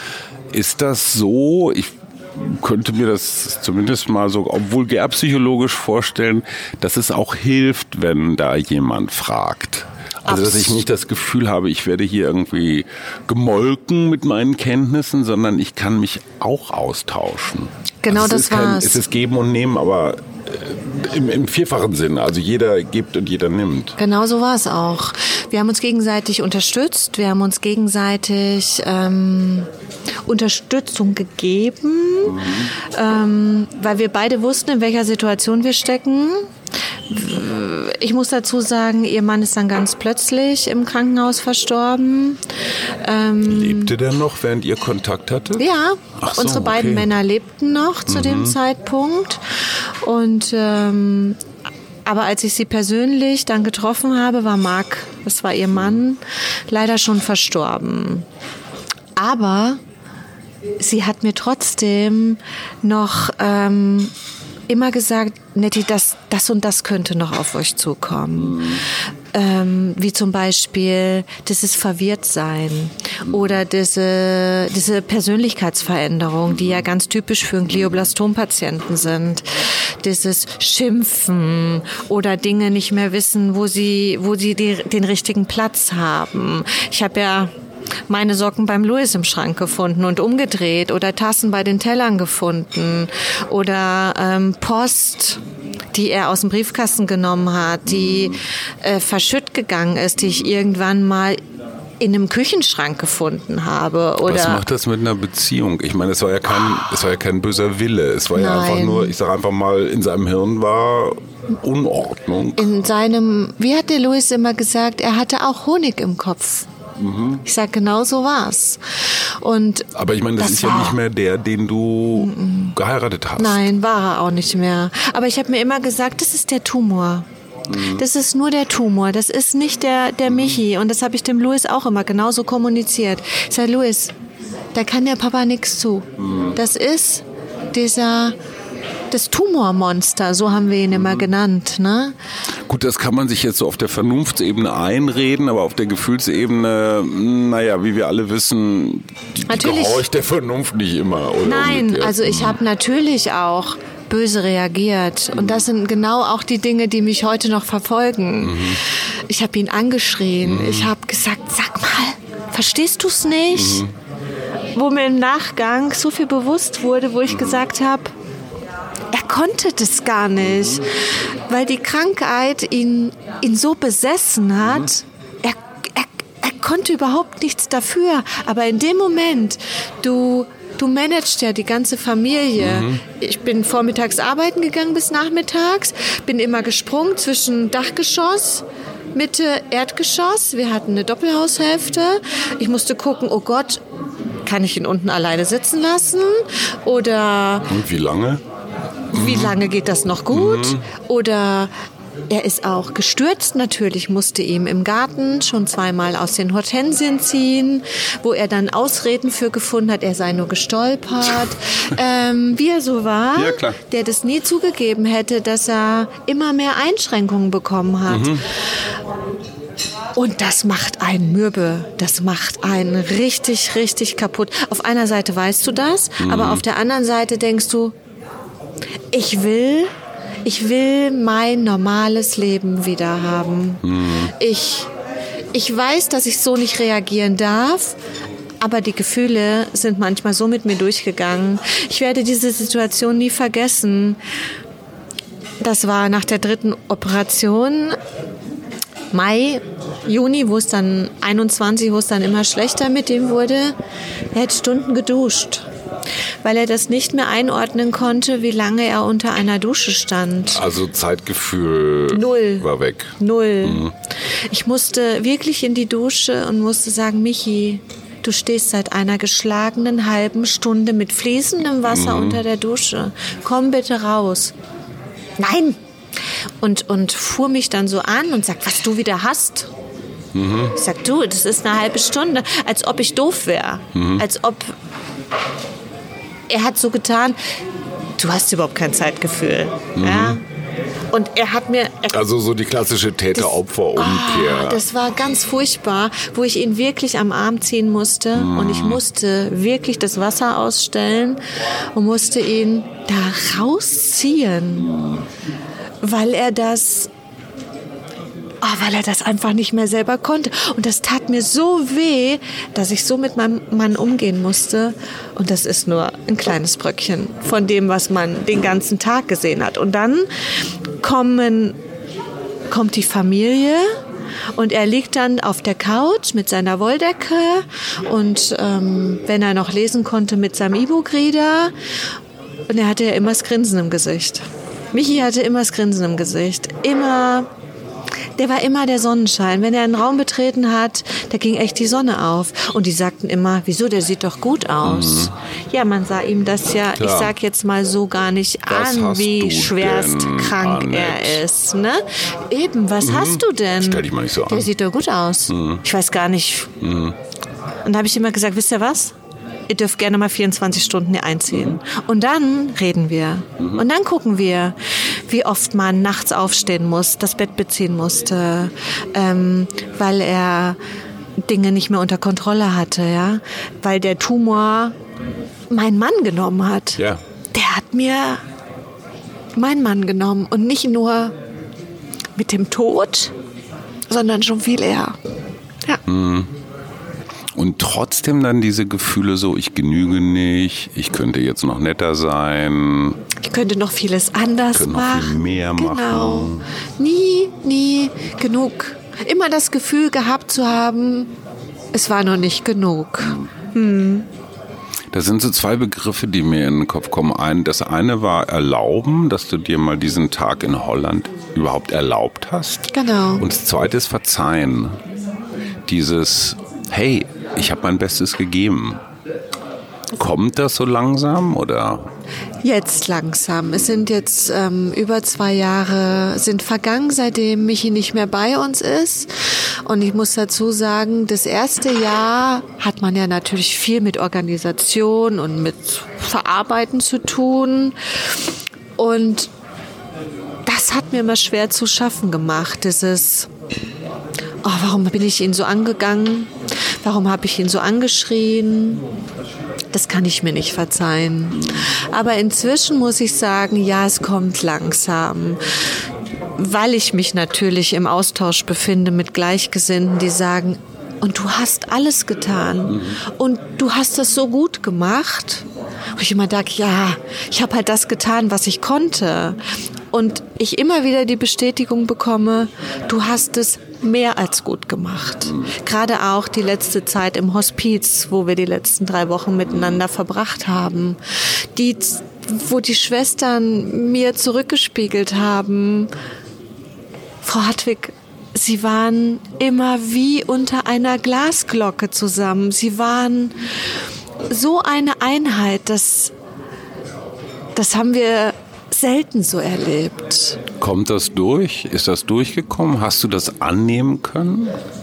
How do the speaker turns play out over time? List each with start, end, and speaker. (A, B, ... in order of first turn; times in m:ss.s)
0:00.5-0:24.0 A
0:10.3-0:10.8 B
0:18.0-0:19.0 B
0:24.0-0:29.7 B
0:30.3-0:36.5 B
0:32.2-0:32.7 A
0:37.1-0:42.4 B
0:43.0-0:43.9 B
0:43.4-0:45.6 A
0:45.6-0:51.4 B
0:46.2-0:47.1 A
0:48.1-0:48.6 A
0:52.1-0:58.2 B
0:59.2-0:59.8 B
1:00.8-1:04.1 B
1:04.7-1:27.5 B
1:08.4-1:08.8 A
1:28.1-1:35.4 B
1:35.9-1:41.4 B
1:37.9-1:38.4 A
1:42.0-1:44.6 B
1:44.2-1:52.7 A
1:48.3-1:49.1 B
1:52.6-1:56.7 B
1:57.0-1:57.4 A
1:57.4-2:01.0 B
2:00.0-2:03.7 A
2:02.1-2:02.7 B
2:03.4-2:14.1 B
2:07.7-2:08.0 A
2:10.3-2:10.6 A
2:14.7-2:18.4 B
2:16.2-2:16.6 A
2:19.1-2:22.1 B
2:20.9-2:21.3 A
2:22.6-2:32.6 A
2:29.5-2:30.0 B
2:31.4-2:43.8 B
2:38.4-2:38.8 A
2:40.4-2:40.9 A
2:43.5-2:43.9 A
2:44.7-2:48.1 B
2:49.1-3:13.8 B
3:02.6-3:03.0 A
3:14.4-3:17.7 B
3:17.7-3:18.4 A
3:19.1-3:21.7 B
3:19.1-3:19.7 A
3:20.3-3:20.8 A
3:22.3-3:38.4 B
3:33.4-3:33.8 A
3:38.1-3:38.4 A
3:40.2-3:48.0 B
3:46.2-3:46.6 A
3:49.1-3:49.9 B
3:50.4-3:54.9 B
3:53.8-3:54.3 A
3:55.5-3:58.0 B
3:58.6-4:04.2 B
4:05.6-4:08.0 B
4:09.1-4:13.7 B
4:14.3-4:15.7 B
4:16.4-4:20.6 B
4:20.5-4:23.9 A
4:22.1-4:23.9 B
4:24.5-4:34.5 B
4:31.9-4:32.4 A
4:35.4-4:35.8 B
4:36.6-4:39.7 B
4:40.3-4:40.7 A
4:40.7-4:44.7 B
4:43.9-4:44.2 A
4:46.5-4:47.4 B
4:48.2-4:50.4 B
4:50.0-4:50.4 A
4:51.1-4:52.2 B
4:52.1-4:54.8 A
4:53.4-5:01.4 B
4:58.4-4:59.0 A
5:01.9-5:04.9 B
5:04.9-5:05.2 A
5:06.0-5:07.1 B
5:08.6-5:20.3 B
5:21.0-5:21.8 B
5:22.7-5:23.9 B
5:24.6-5:31.7 B
5:32.7-5:37.5 B
5:38.4-5:56.8 B
5:44.8-5:45.3 A
5:47.0-5:47.3 A
5:48.7-5:51.4 A
5:53.0-5:54.7 A
5:55.5-5:55.8 A
5:56.8-5:57.2 A
5:57.8-5:59.1 B
5:59.7-6:04.8 B
6:05.3-6:10.8 B
6:11.4-6:15.0 B
6:15.7-6:17.0 B
6:17.0-6:17.2 A
6:17.5-6:18.4 B
6:19.6-6:21.4 B
6:22.4-6:23.3 B
6:24.1-6:25.2 B
6:26.1-6:26.5 A
6:27.5-6:33.2 A
6:33.4-6:41.3 B
6:34.7-6:36.6 A
6:41.9-6:44.3 B
6:43.2-6:43.5 A
6:45.1-6:55.0 A
6:52.9-6:53.4 B
6:55.9-6:59.0 A
7:00.1-7:02.1 A
7:02.6-7:18.0 B
7:19.0-7:19.5 B
7:20.7-7:23.5 B
7:24.6-7:29.0 B
7:29.9-7:35.7 B
7:36.6-7:49.6 B
7:42.9-7:43.1 A
7:50.1-8:01.2 B
7:59.7-8:00.0 A
8:01.8-8:06.1 B
8:07.4-8:13.6 B
8:14.5-8:16.3 B
8:17.8-8:20.6 B
8:20.8-8:24.8 A